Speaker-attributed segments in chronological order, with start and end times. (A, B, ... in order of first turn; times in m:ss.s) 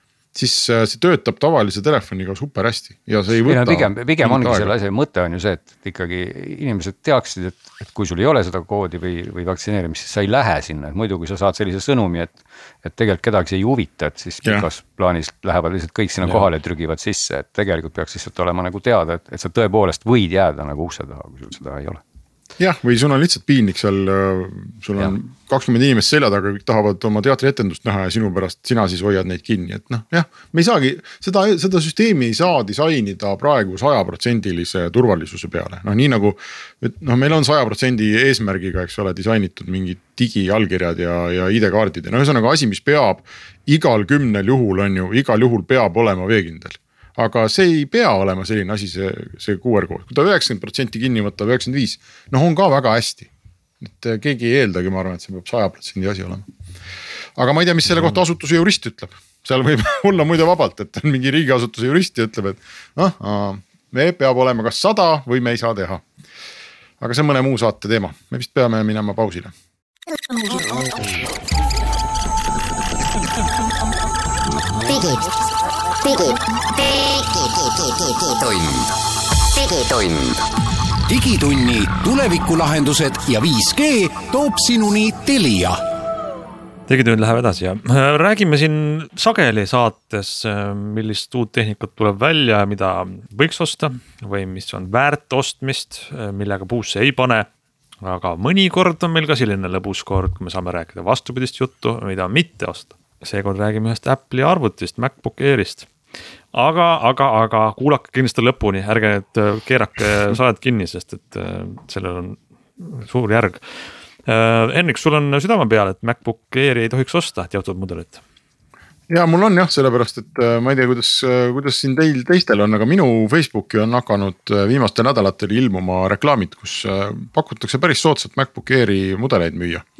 0:00.3-0:04.7 A
0:03.4-0:22.0 B
0:22.6-0:53.3 A
0:53.8-0:56.4 A
0:57.4-1:06.0 A
1:07.0-1:09.5 A
1:14.9-1:15.1 C
1:18.0-1:18.9 C
1:19.5-1:20.4 C
1:21.1-1:25.8 D
1:26.9-1:37.4 E
1:38.0-1:45.9 E
1:46.5-1:53.7 E
1:54.2-1:58.2 E
1:59.1-2:09.8 A